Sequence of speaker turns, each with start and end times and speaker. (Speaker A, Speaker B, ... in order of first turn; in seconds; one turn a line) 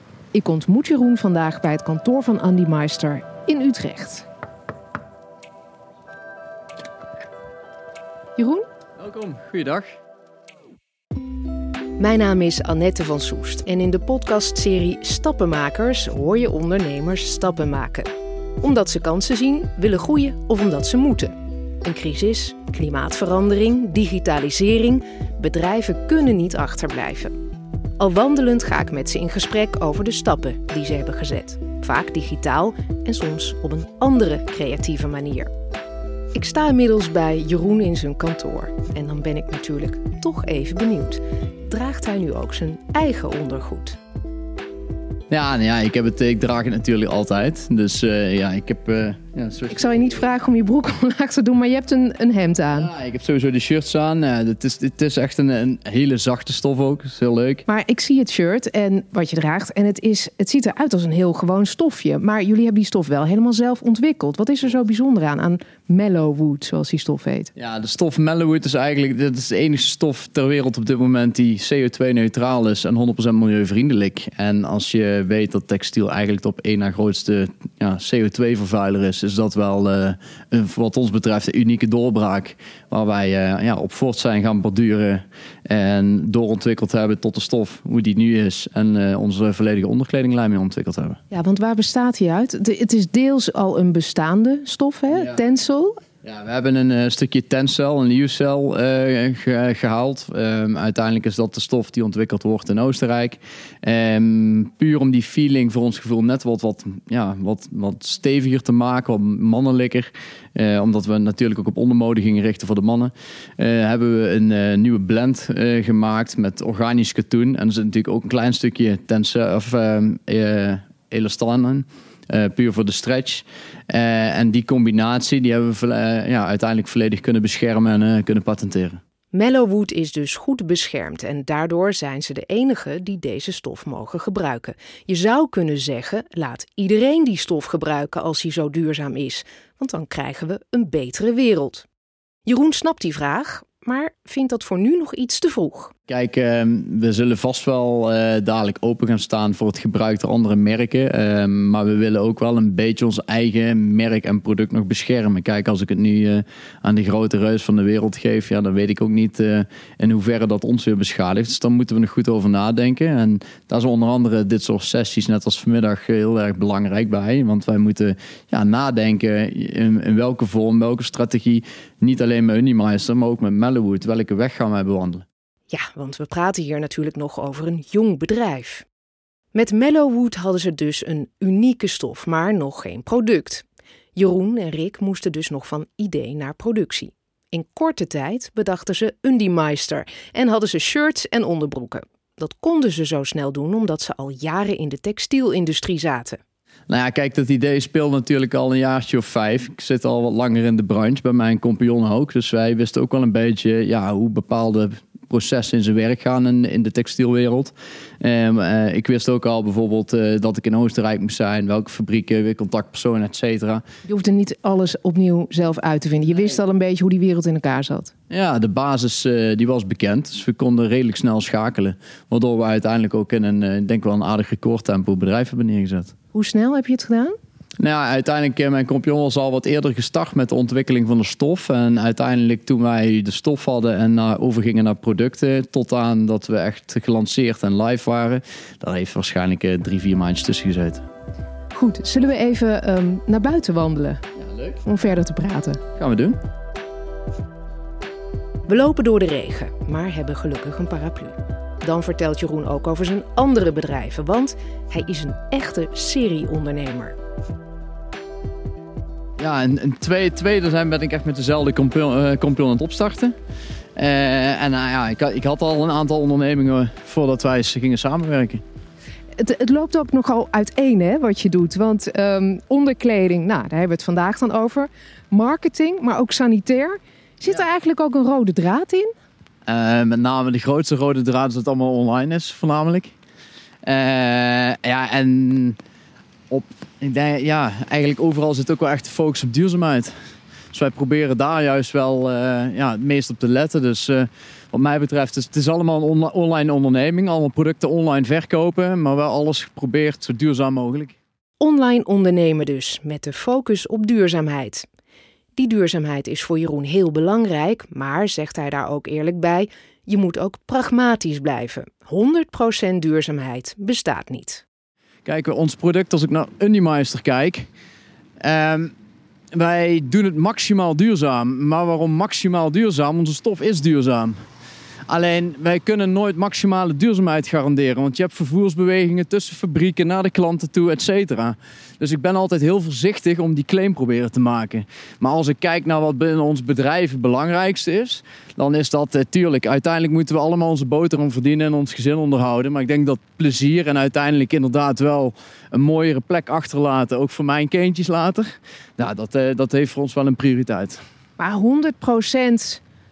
Speaker A: 0.3-4.3
Speaker A: 8.4-8.7
Speaker B: 9.0-9.9
Speaker A: 12.0-27.3
Speaker A: 28.0-35.5
Speaker A: 36.3-44.0
Speaker B: 45.3-50.3
Speaker A: 49.7-52.9
Speaker B: 52.8-57.6
Speaker A: 57.7-67.5
Speaker B: 67.5-91.2
Speaker A: 91.3-96.0
Speaker B: 95.1-95.4
Speaker B: 96.2-129.0
Speaker A: 129.3-141.9
Speaker A: 142.4-145.9
Speaker B: 146.1-175.2
Speaker A: 175.7-178.9
Speaker A: 179.5-196.4
Speaker B: 196.9-213.8
Speaker A: 214.1-218.1
Speaker B: 218.3-226.1
Speaker A: 226.3-227.4
Speaker B: 227.8-241.0
Speaker A: 241.7-244.2
Speaker B: 244.5-244.8
Speaker A: 244.8-245.8
Speaker B: 246.0-246.4
Speaker A: 248.7-257.2
Speaker B: 259.4-263.3
Speaker B: 264.0-268.6
Speaker A: 269.4-279.1
Speaker B: 279.7-283.1
Speaker B: 283.9-285.8
Speaker B: 286.5-290.1
Speaker B: 290.7-301.1
Speaker A: 301.6-304.9
Speaker A: 305.6-314.6
Speaker B: 315.2-317.7
Speaker B: 318.4-318.9
Speaker B: 319.5-324.4
Speaker B: 325.1-351.0
Speaker A: 351.4-352.8